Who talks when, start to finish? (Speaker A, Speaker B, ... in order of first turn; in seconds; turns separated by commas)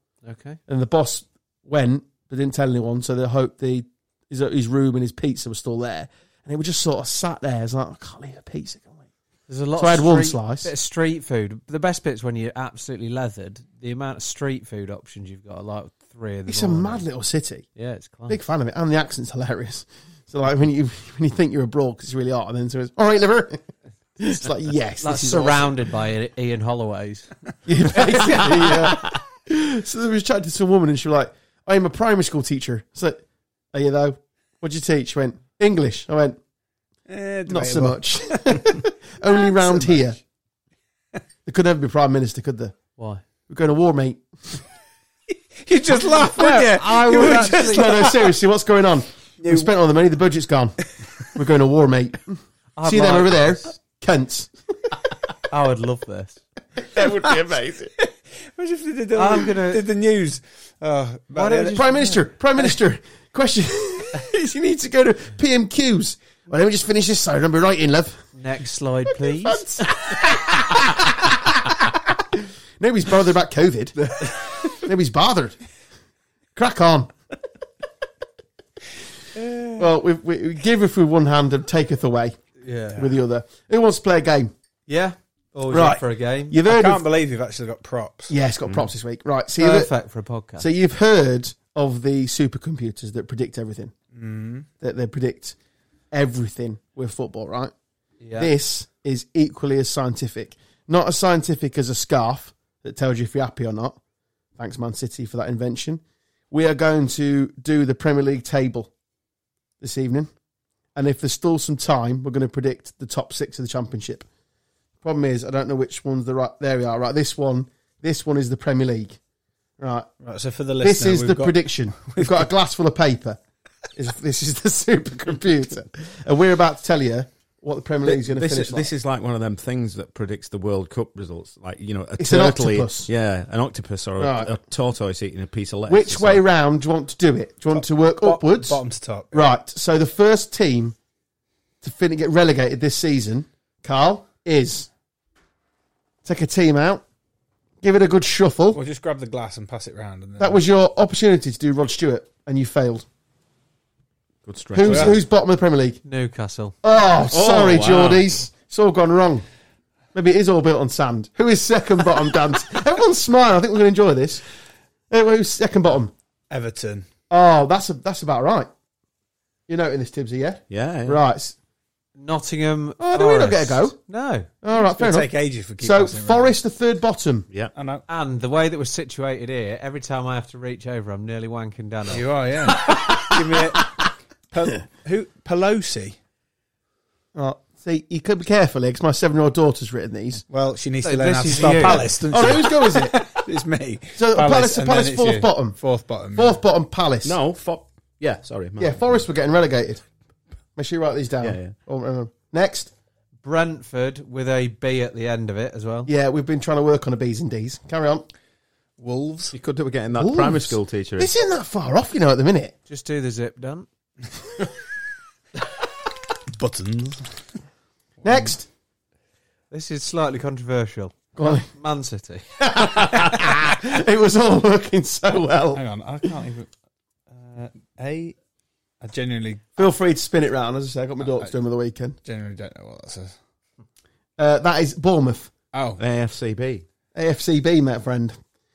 Speaker A: 0.2-0.6, Speaker B: 0.7-9.0, Speaker A: 9.5-17.1, Speaker B: 9.8-10.7, Speaker B: 16.5-17.7, Speaker A: 17.8-18.4, Speaker B: 18.3-23.6, Speaker B: 24.2-25.7, Speaker A: 25.0-27.3, Speaker B: 27.7-33.2, Speaker A: 27.9-29.1, Speaker B: 33.7-36.4, Speaker C: 37.1-38.8, Speaker B: 37.5-40.2, Speaker C: 39.4-40.0, Speaker B: 41.5-42.8, Speaker A: 43.0-43.2, Speaker B: 43.5-44.2, Speaker C: 45.6-48.1, Speaker A: 45.9-48.1, Speaker B: 47.2-54.5, Speaker C: 49.4-49.7, Speaker A: 52.8-53.7, Speaker A: 55.5-56.4, Speaker B: 56.8-57.9, Speaker C: 57.0-57.3, Speaker C: 58.0-61.8, Speaker A: 59.1-59.9, Speaker A: 61.3-62.2, Speaker B: 61.7-68.2, Speaker A: 68.3-69.7, Speaker B: 69.4-71.3, Speaker B: 72.3-75.6, Speaker B: 76.5-77.1, Speaker C: 79.4-79.7, Speaker B: 79.7-82.4, Speaker A: 82.7-83.0, Speaker B: 83.0-84.5, Speaker A: 84.9-86.6, Speaker B: 85.7-87.0, Speaker C: 86.7-88.3, Speaker B: 88.3-89.9, Speaker A: 89.6-90.7, Speaker B: 90.6-93.9, Speaker C: 94.1-94.7, Speaker B: 94.8-95.5, Speaker B: 96.1-97.7, Speaker A: 98.2-98.5, Speaker B: 98.4-104.0, Speaker B: 104.6-108.9, Speaker B: 109.8-110.3, Speaker B: 111.0-114.3, Speaker B: 115.0-119.2, Speaker B: 119.8-120.1, Speaker C: 120.2-122.5, Speaker B: 120.8-123.4, Speaker B: 124.0-128.9, Speaker D: 128.0-136.4, Speaker B: 132.2-133.1, Speaker B: 134.2-134.5, Speaker B: 135.9-138.8, Speaker C: 138.2-139.4, Speaker B: 139.3-141.0, Speaker B: 141.8-144.9, Speaker B: 146.2-147.0, Speaker B: 147.8-148.8, Speaker C: 148.7-150.6, Speaker B: 150.4-153.1, Speaker D: 154.4-155.2, Speaker B: 154.7-156.0, Speaker C: 154.8-155.2, Speaker A: 156.1-156.8, Speaker B: 156.8-159.4, Speaker D: 157.3-158.3, Speaker B: 160.1-164.4, Speaker B: 165.1-166.1, Speaker C: 166.5-167.1, Speaker B: 167.3-168.7, Speaker B: 169.7-171.6, Speaker D: 170.7-171.2, Speaker A: 172.2-174.5, Speaker B: 173.0-174.0, Speaker B: 174.6-177.5, Speaker C: 174.7-176.5, Speaker C: 177.8-178.0, Speaker A: 178.1-182.3, Speaker C: 182.1-186.2, Speaker B: 187.3-190.4, Speaker C: 190.5-196.6, Speaker A: 191.0-192.2, Speaker B: 191.8-193.2, Speaker B: 194.2-195.8, Speaker B: 196.3-197.4, Speaker D: 197.2-199.2, Speaker B: 198.8-200.0, Speaker B: 200.8-202.9, Speaker D: 201.4-201.7, Speaker A: 203.4-206.1, Speaker B: 206.1-208.3, Speaker C: 209.0-209.5, Speaker D: 209.5-211.3, Speaker B: 210.2-212.8, Speaker A: 212.9-213.9, Speaker C: 216.5-217.4, Speaker B: 218.2-218.7, Speaker A: 219.7-222.4, Speaker B: 221.4-221.7, Speaker B: 222.6-226.3, Speaker C: 225.8-226.7, Speaker C: 227.3-228.4, Speaker C: 229.0-229.9, Speaker B: 229.8-232.2, Speaker C: 232.2-233.3, Speaker B: 234.4-235.5, Speaker C: 235.7-236.0, Speaker D: 236.0-236.8, Speaker B: 237.1-238.4